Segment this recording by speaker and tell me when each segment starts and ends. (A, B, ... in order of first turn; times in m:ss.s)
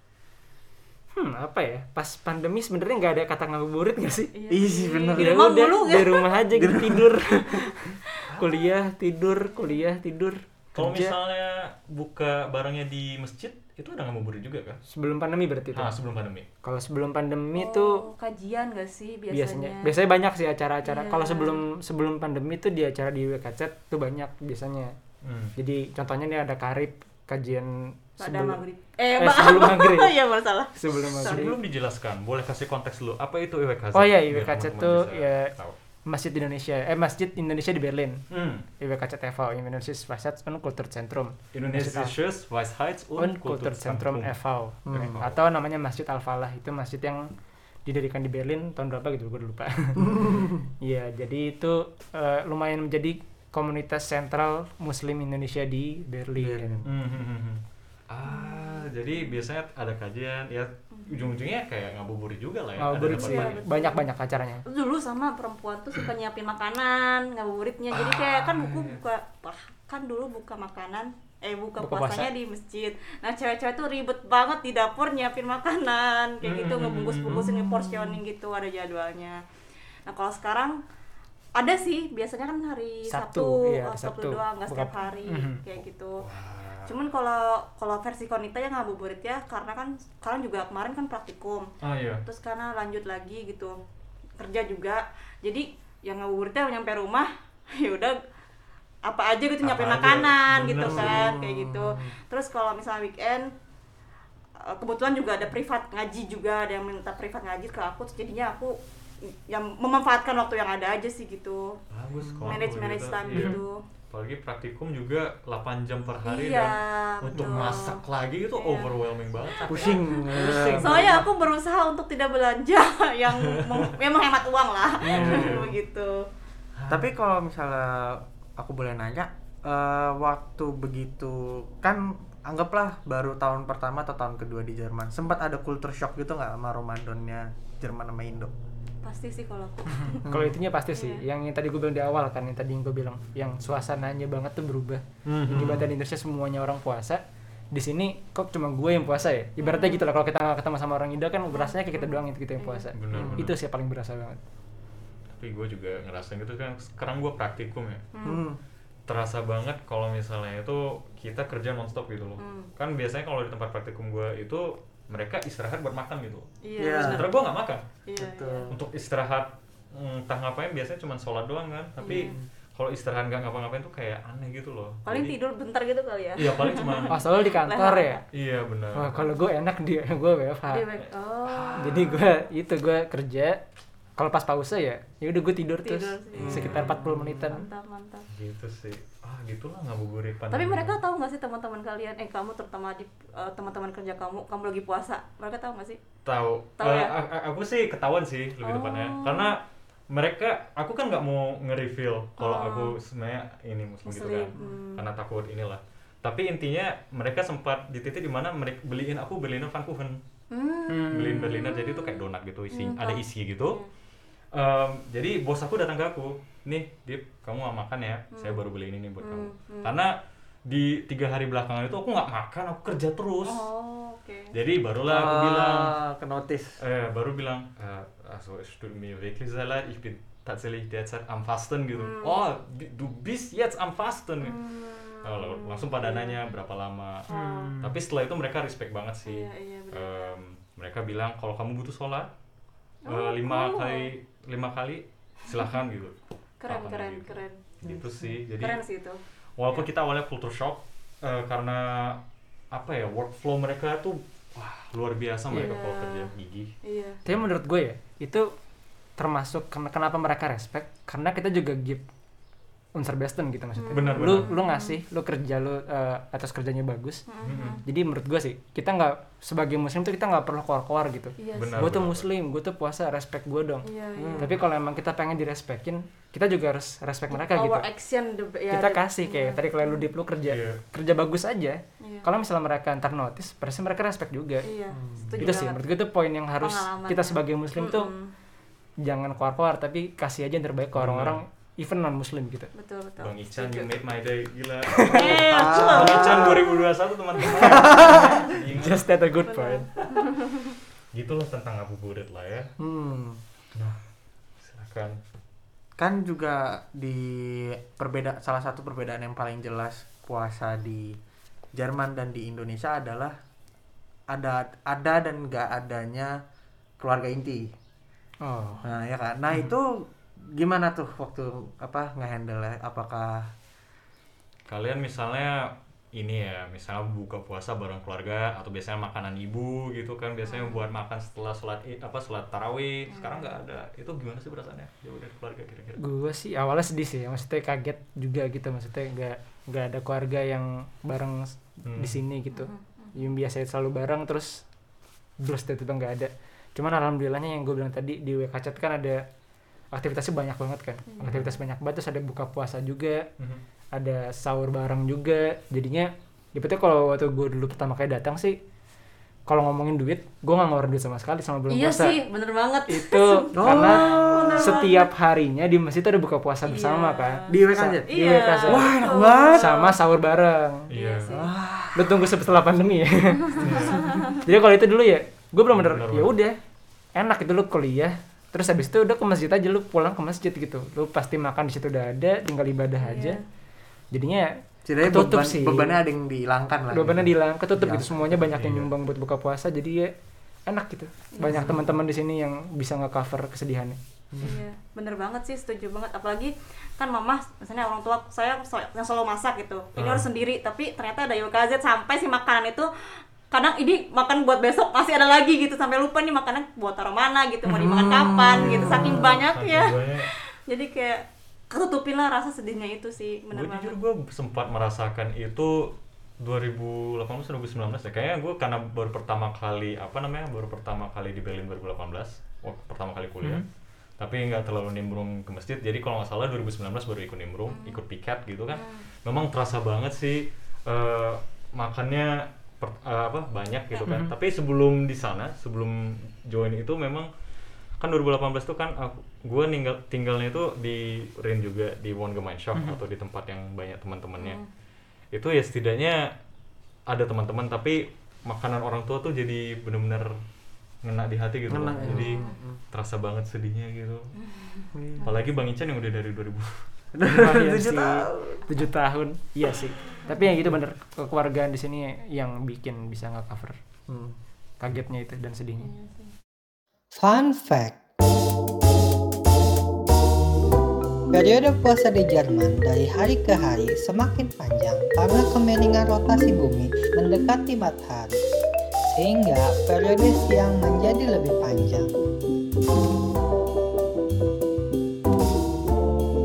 0:01.1-0:04.3 A
0:04.3-0:06.4 B
0:04.5-0:05.4 C
0:05.2-0:11.1 A
0:06.5-0:07.4 C
0:08.3-0:08.6 D
0:09.5-0:09.8 B
0:10.8-0:14.8 D
0:14.9-0:15.9 A
0:15.7-0:16.5 D
0:16.6-0:18.0 A
0:17.6-0:20.0 B
0:19.3-0:25.0 A
0:20.8-0:21.6 B
0:25.2-0:25.5 D
0:25.6-0:28.6 A
0:28.2-0:31.5 B
0:29.2-0:30.2 A
0:30.7-0:31.5 A
0:31.2-0:35.8 D
0:33.9-0:35.5 A
0:36.1-0:38.2 A
0:38.3-0:38.6 D
0:38.8-0:42.1 A
0:41.5-0:44.3 D
0:43.2-0:47.3 A
0:44.8-0:45.2 C
0:44.9-0:45.4 D
0:47.8-0:56.8 A
0:50.0-0:50.6 C
0:56.4-0:56.9 C
0:56.8-1:03.7 D
0:58.2-0:59.4 B
1:00.9-1:01.3 B
1:02.8-1:04.6 A
1:03.1-1:04.0 B
1:04.6-1:19.4 B
1:07.9-1:09.0 D
1:11.8-1:12.3 A
1:16.4-1:18.2 D
1:20.0-1:20.8 B
1:21.6-1:26.2 B
1:23.1-1:25.6 A
1:26.2-1:26.9 D
1:26.9-1:31.7 B
1:31.8-1:32.2 D
1:32.2-1:33.8 B
1:34.4-1:38.2 B
1:39.0-1:43.5 B
1:39.6-1:41.3 D
1:40.7-1:42.1 C
1:44.6-1:48.8 B
1:49.3-1:51.8 B
1:51.9-1:53.6 D
1:52.2-1:52.6 C
1:52.4-1:53.8 B
1:54.1-2:01.2 D
1:56.2-1:58.0 B
1:58.6-2:06.2 B
1:59.7-2:01.2 C
2:05.0-2:05.7 C
2:05.1-2:05.7 D
2:06.8-2:07.1 D
2:06.9-2:18.5 C
2:19.0-2:20.2 B
2:20.1-2:34.4 A
2:20.3-2:20.6 C
2:20.9-2:21.2 B
2:25.2-2:25.9 D
2:29.6-2:30.0 B
2:31.5-2:32.9 B
2:32.9-2:33.6 D
2:33.1-2:33.5 C
2:35.4-2:38.1 D
2:38.1-2:38.4 B
2:38.2-2:38.6 C
2:39.1-2:47.8 D
2:42.4-2:42.7 B
2:46.6-2:47.4 B
2:46.8-2:47.3 C
2:48.0-2:48.7 B
2:48.2-2:48.8 C
2:48.7-2:55.4 D
2:52.0-2:52.3 B
2:52.1-2:52.4 C
2:55.0-2:58.2 B
2:56.4-2:57.1 D
2:57.1-2:58.2 A
2:58.3-2:59.3 D
2:58.9-3:00.8 A
3:00.7-3:02.0 B
3:01.4-3:02.2 D
3:01.8-3:03.6 A
3:04.2-3:07.6 A
3:05.8-3:08.2 B
3:06.3-3:06.8 C
3:06.4-3:07.4 D
3:08.3-3:11.0 D
3:10.5-3:16.0 B
3:16.2-3:30.2 D
3:16.8-3:17.1 B
3:18.6-3:19.5 B
3:22.4-3:23.0 B
3:24.0-3:25.0 B
3:30.5-3:33.9 B
3:30.9-3:31.5 A
3:31.1-3:33.8 D
3:34.5-3:40.1 D
3:38.3-3:38.6 B
3:39.2-3:39.9 B
3:40.6-3:43.6 D
3:43.4-3:44.5 B
3:44.5-3:45.9 D
3:45.1-3:46.8 C
3:46.8-3:54.6 D
3:51.9-3:52.4 B
3:54.4-3:56.4 B
3:55.2-4:02.3 D
3:57.3-3:58.0 A
3:57.3-3:57.7 B
3:59.2-4:00.3 B
4:03.0-4:04.1 B
4:03.0-4:06.2 D
4:06.6-4:07.8 B
4:06.7-4:08.8 D
4:08.6-4:09.9 B
4:09.6-4:12.2 D
4:12.7-4:16.7 D
4:15.5-4:16.3 B
4:16.8-4:17.2 B
4:17.2-4:18.5 A
4:19.2-4:22.0 A
4:22.9-4:27.2 A
4:23.8-4:25.0 B
4:23.9-4:24.5 D
4:27.3-4:27.8 B
4:27.4-4:27.8 D
4:27.8-4:33.8 A
4:31.4-4:31.9 B
4:31.5-4:32.3 D
4:33.8-4:34.5 B
4:34.2-4:34.5 C
4:34.4-4:37.8 A
4:37.3-4:40.1 B
4:38.7-4:44.7 A
4:40.4-4:40.8 D
4:44.6-4:45.8 B
4:44.9-4:45.2 C
4:45.4-4:48.1 A
4:46.6-4:48.3 B
4:49.0-4:52.7 A
4:51.0-4:51.4 D
4:52.7-4:54.0 B
4:53.2-4:59.0 D
4:55.0-4:58.3 B
4:55.5-4:56.6 C
4:57.6-4:58.4 C
4:58.7-4:59.9 A
4:59.4-5:00.7 B
5:01.1-5:02.7 D
5:02.8-5:03.4 C
5:04.6-5:05.2 D
5:06.0-5:11.2 C
5:11.7-5:13.3 C
5:14.3-5:16.4 C
5:17.0-5:17.7 C
5:18.4-5:18.8 A
5:18.8-5:23.5 C
5:24.7-5:36.0 D
5:30.4-5:30.9 B
5:33.1-5:33.6 B
5:36.0-5:44.6 A
5:41.8-5:42.2 D
5:42.5-5:43.1 B
5:45.4-5:49.2 A
5:49.9-5:53.2 A
5:51.1-5:51.5 B
5:51.2-5:51.5 D
5:53.9-5:58.6 A
5:59.5-6:02.2 A
6:01.7-6:05.1 B
6:02.9-6:09.0 A
6:03.5-6:04.9 C
6:06.6-6:07.5 B
6:07.5-6:08.1 C
6:08.1-6:09.9 B
6:08.6-6:09.7 C
6:09.5-6:10.9 A
6:10.9-6:11.4 D
6:10.9-6:11.5 B
6:11.3-6:12.2 C
6:11.9-6:16.6 A
6:13.6-6:14.2 B
6:13.6-6:14.2 D
6:15.7-6:16.4 D
6:17.2-6:23.4 A
6:23.0-6:23.4 B
6:24.1-6:26.0 A
6:24.8-6:28.6 C
6:26.9-6:30.1 A
6:28.4-6:28.9 D
6:30.7-6:34.0 A
6:31.4-6:31.7 B
6:34.3-6:34.6 C
6:34.4-6:42.9 B
6:40.0-6:40.2 D
6:43.5-6:54.0 B
6:47.7-6:49.4 C
6:48.6-6:50.3 D
6:53.5-7:03.6 D
7:04.2-7:17.3 D
7:07.7-7:08.0 B
7:08.7-7:09.0 B
7:14.0-7:14.3 A
7:18.0-7:24.6 D
7:24.4-7:24.6 B
7:25.3-7:26.3 D
7:27.1-7:30.3 D
7:31.0-7:34.3 D
7:31.7-7:32.8 C
7:32.0-7:32.5 B
7:34.4-7:35.3 B
7:34.9-7:35.3 C
7:35.2-7:36.8 D
7:37.2-7:38.6 C
7:37.3-7:43.8 A
7:44.1-7:44.4 C
7:44.8-7:45.9 A
7:45.8-7:46.3 B
7:47.1-7:48.0 E
7:51.3-7:58.4 E
7:59.0-8:02.1 E